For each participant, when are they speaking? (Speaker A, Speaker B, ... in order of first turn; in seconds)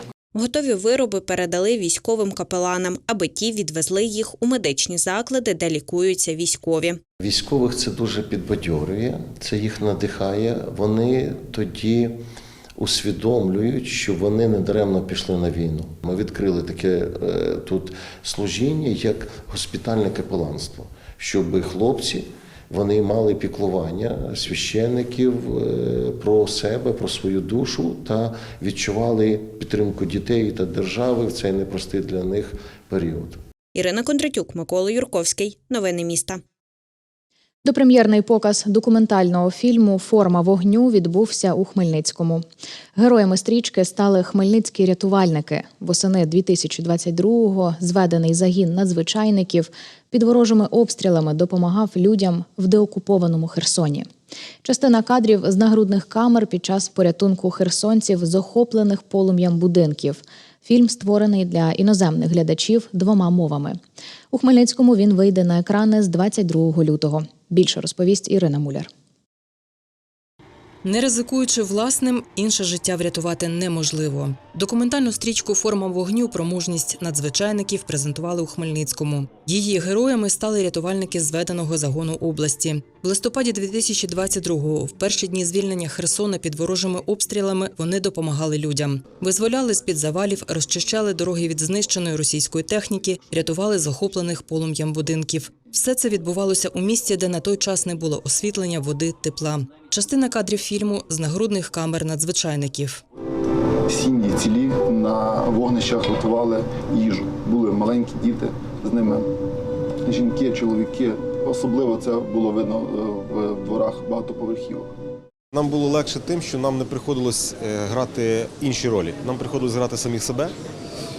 Speaker A: 0.3-7.0, 33.7-36.4
Speaker B: 7.2-12.2, 12.8-33.4
Speaker C: 37.6-42.5, 43.0-54.1, 54.6-63.8, 64.3-68.9
Speaker D: 70.8-103.0
Speaker E: 103.9-109.3, 110.1-114.9
Speaker F: 115.5-120.5